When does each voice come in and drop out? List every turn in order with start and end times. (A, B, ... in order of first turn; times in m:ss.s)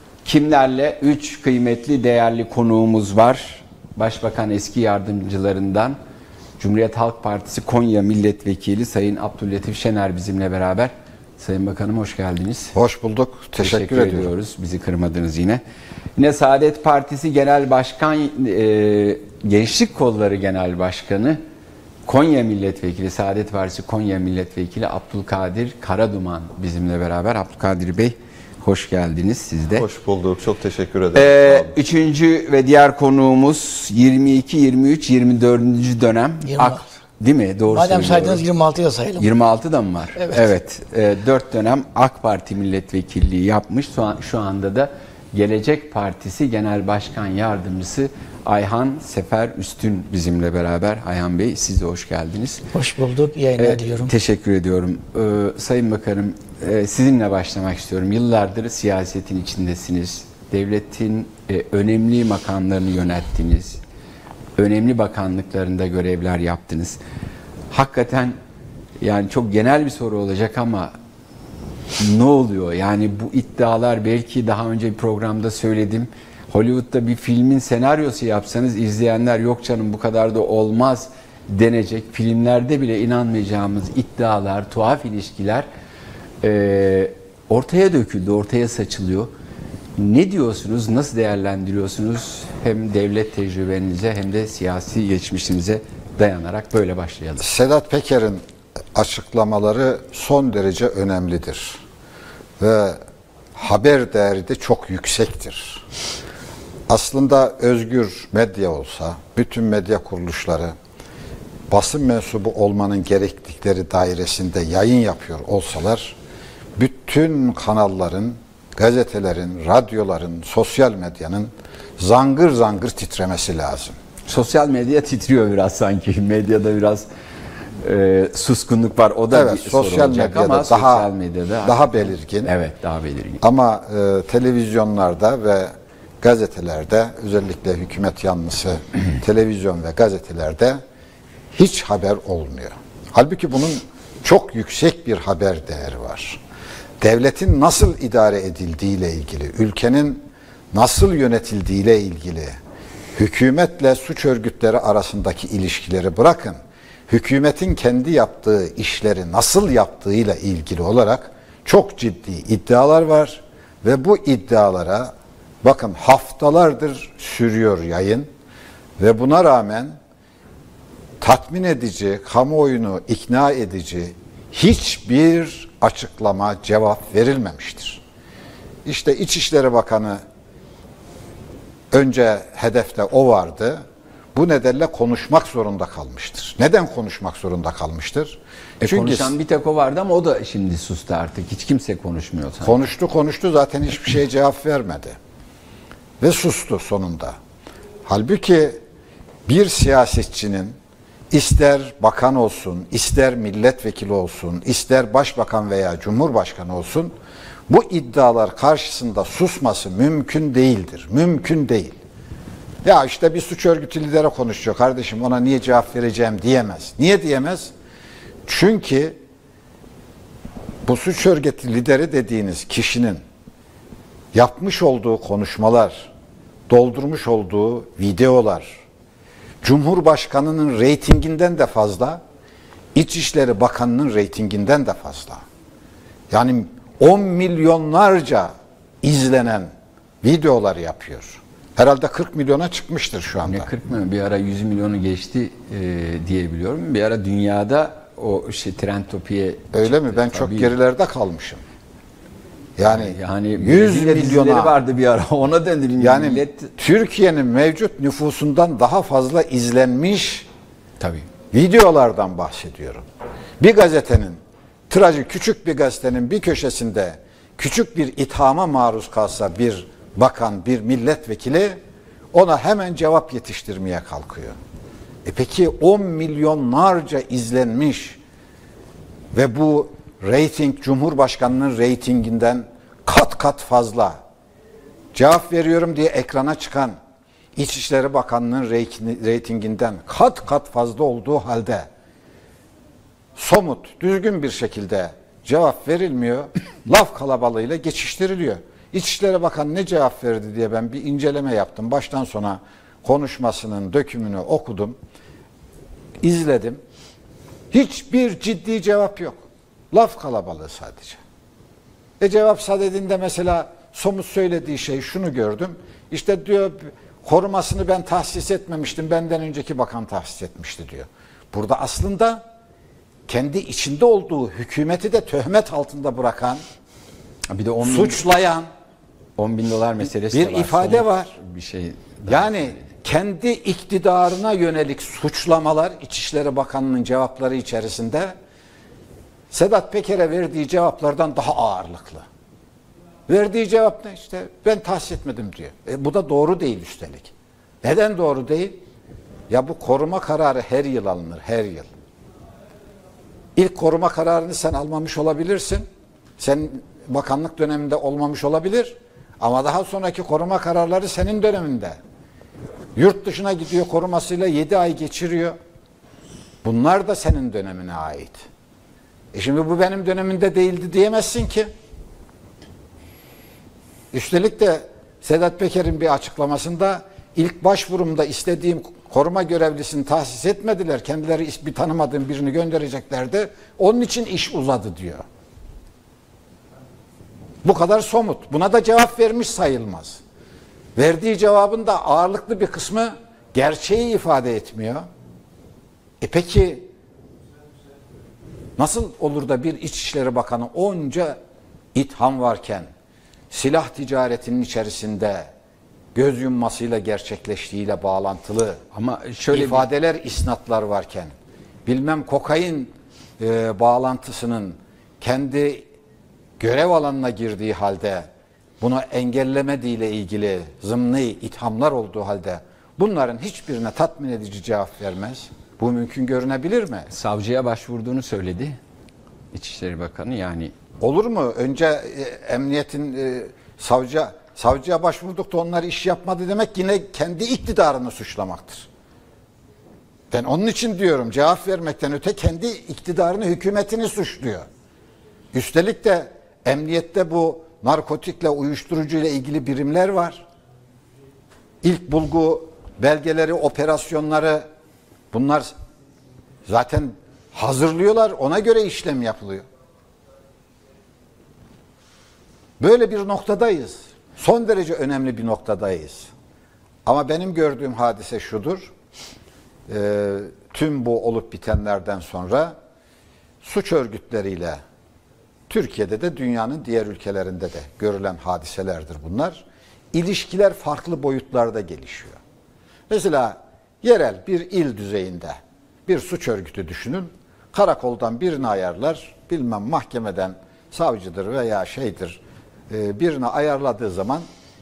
0:00.2-0:06.0 A
0:06.6-0:12.7 A
0:12.7-0:14.3 B
0:13.6-0:15.6 A
0:16.2-0:21.4 A
0:22.0-0:29.8 A
0:29.8-0:31.7 C
0:31.1-0:38.4 A
0:36.5-0:36.8 D
0:37.7-0:39.3 D
0:39.2-0:52.6 A
0:40.2-0:40.4 D
0:52.7-0:54.1 D
0:53.6-1:03.8 A
1:04.6-1:07.0 A
1:07.7-1:08.4 A
1:09.0-1:10.9 A
1:12.0-1:25.6 A
1:26.4-1:29.3 A
1:30.0-1:37.5 A
1:37.4-1:38.4 B
1:38.9-1:41.8 B
1:42.6-1:43.0 B
1:43.5-1:45.8 B
1:46.9-1:50.7 B
1:51.7-1:56.2 B
1:56.8-2:04.0 B
2:04.2-2:07.1 A
2:07.8-2:11.8 A
2:09.3-2:11.1 B
2:11.6-2:12.5 B
2:12.4-2:13.4 A
2:13.4-2:20.8 B
2:21.5-2:26.4 B
2:27.0-2:32.6 B
2:33.2-2:48.3 B
2:49.0-2:50.0 B
2:51.2-2:58.0 B
2:58.8-3:00.2 B
3:01.9-3:09.3 B
3:08.8-3:12.7 A
3:12.6-3:15.2 B
3:16.2-3:17.4 B
3:18.0-3:18.8 B
3:19.5-3:20.8 B
3:21.3-3:27.1 B
3:27.7-3:32.0 B
3:32.8-3:37.7 B
3:38.4-3:39.2 B
3:40.8-3:43.2 B
3:44.3-3:46.1 B
3:46.7-3:48.8 B
3:49.6-3:52.2 B
3:52.9-3:55.4 B
3:56.3-3:58.5 B
3:59.0-3:59.7 B
4:00.2-4:03.7 B
4:03.4-4:10.7 A
4:09.7-4:11.6 B
4:12.8-4:14.7 B
4:12.9-4:16.7 A
4:16.0-4:20.5 B
4:21.0-4:21.3 A
4:21.5-4:23.0 B
4:23.6-4:31.8 B
4:32.3-4:34.6 B
4:35.2-4:38.2 B
4:39.3-4:44.2 B
4:45.1-4:47.0 B
4:47.6-4:51.9 B
4:53.4-5:05.0 B
5:06.2-5:06.8 B
5:07.7-5:09.4 B
5:09.9-5:11.2 B
5:12.2-5:22.4 B
5:23.3-5:26.6 B
5:27.5-5:28.2 A
5:27.8-5:28.7 B
5:29.4-5:32.9 A
5:30.0-5:31.4 B
5:32.3-5:38.3 B
5:39.5-5:42.3 B
5:43.3-5:48.8 B
5:49.5-5:51.9 B
5:53.6-5:55.9 B
5:56.4-6:02.0 B
6:02.9-6:05.6 B
6:06.6-6:08.4 B
6:09.3-6:11.7 B
6:14.1-6:25.2 B
6:27.6-6:30.2 B
6:31.0-6:35.1 B
6:36.2-6:36.9 B
6:38.8-6:41.4 B
6:41.9-6:42.9 B
6:43.5-6:45.5 B
6:46.1-6:48.8 B
6:48.9-6:49.9 A
6:49.5-6:51.3 B
6:51.8-6:55.9 B
6:56.6-6:58.3 B
6:58.8-7:07.1 B
7:07.1-7:08.8 A
7:09.5-7:10.7 A
7:11.0-7:18.9 B
7:20.3-7:24.6 B
7:25.5-7:30.4 B
7:31.8-7:34.7 B
7:35.3-7:35.7 B
7:36.7-7:39.6 B
7:42.8-7:46.3 B
7:47.0-7:48.9 B
7:49.9-7:52.8 B
7:53.6-7:54.8 B
7:55.7-8:02.4 B
8:03.1-8:14.4 B